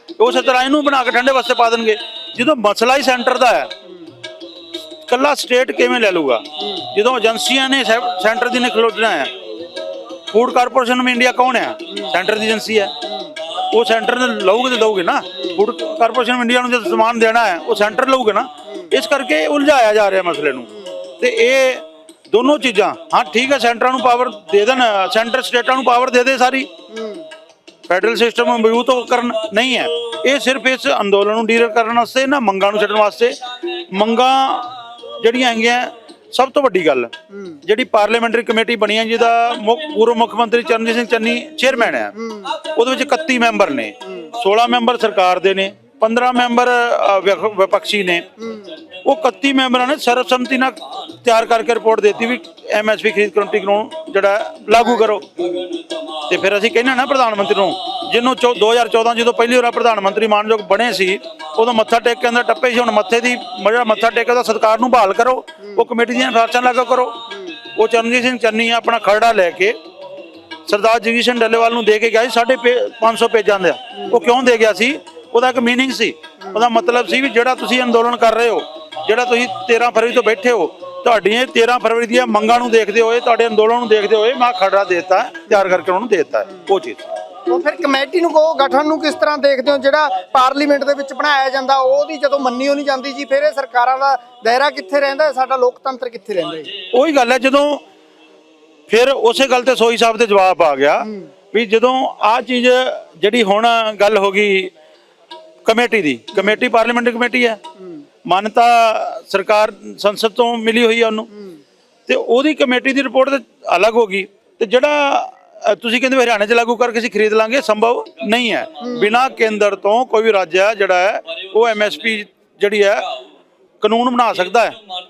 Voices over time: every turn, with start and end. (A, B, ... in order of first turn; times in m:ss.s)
0:00.2-0:03.7 A
0:05.1-0:09.3 A
0:10.3-0:13.0 A
0:13.7-0:26.7 A
0:26.9-0:27.3 B
0:27.9-0:37.1 A
0:37.3-0:37.6 B
0:37.6-0:48.2 A
0:41.7-0:42.6 B
0:48.4-0:48.8 B
0:49.0-0:55.5 A
0:54.8-0:55.1 B
0:56.3-1:07.2 A
1:07.7-1:09.8 A
1:10.7-1:27.0 A
1:27.5-1:36.7 B
1:36.9-1:37.8 A
1:38.9-1:44.7 A
1:45.6-1:47.6 A
1:48.2-1:51.3 A
1:52.1-2:03.1 A
1:58.8-1:59.2 B
2:03.8-2:04.8 A